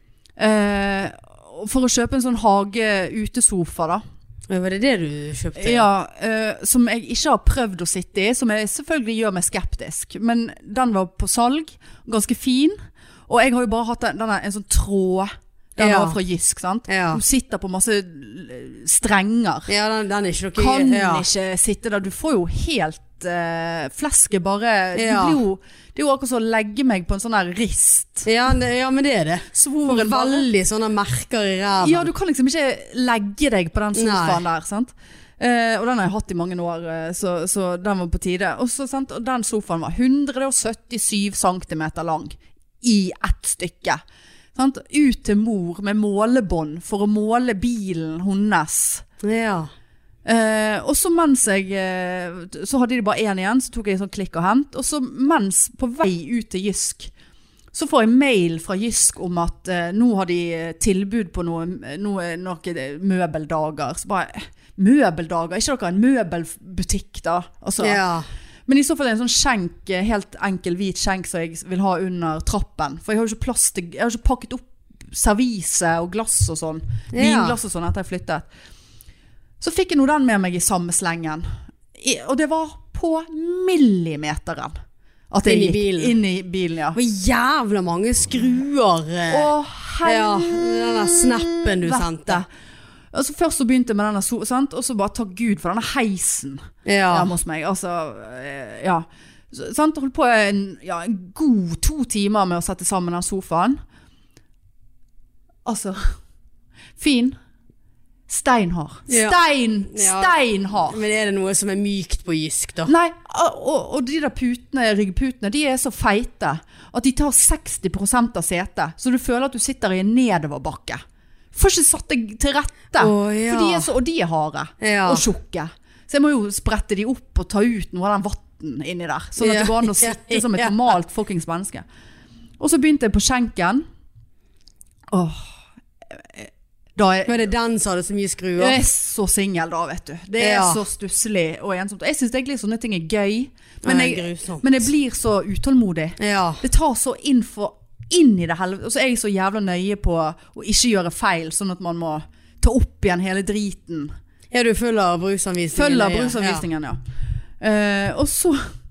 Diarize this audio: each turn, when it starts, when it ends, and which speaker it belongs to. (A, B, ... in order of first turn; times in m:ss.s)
0:00.4-0:04.0 A
0:04.5-0:05.9 B
0:05.6-0:12.8 A
0:13.3-0:19.7 A
0:15.8-0:16.2 B
0:16.9-0:17.2 B
0:19.7-0:21.2 B
0:20.6-0:28.3 A
0:24.9-0:25.4 B
0:28.2-0:32.1 B
0:29.5-0:30.5 A
0:31.8-0:44.0 A
0:33.9-0:34.4 B
0:44.5-0:49.0 A
0:49.2-0:49.7 B
0:50.2-0:57.1 A
0:57.7-1:08.0 A
1:07.8-1:08.2 B
1:08.7-1:18.5 A
1:17.1-1:17.6 B
1:19.6-1:24.7 A
1:25.3-1:27.0 A
1:25.4-1:26.2 B
1:26.9-1:29.5 B
1:29.3-1:32.5 A
1:30.0-1:32.4 B
1:33.1-1:43.8 A
1:36.8-1:37.3 B
1:45.6-1:46.2 A
1:47.0-1:47.4 A
1:48.3-1:51.0 A
1:49.1-1:52.9 B
1:52.8-2:01.0 A
2:01.5-2:11.8 A
2:03.0-2:03.9 B
2:04.8-2:05.2 B
2:09.4-2:10.9 B
2:12.6-2:13.8 A
2:15.1-2:15.5 A
2:16.2-2:17.5 A
2:17.2-2:18.8 B
2:18.6-2:34.1 A
2:20.4-2:20.8 B
2:23.8-2:24.7 B
2:26.2-2:26.6 B
2:34.5-2:36.6 B
2:35.7-2:37.0 A
2:37.6-2:38.6 A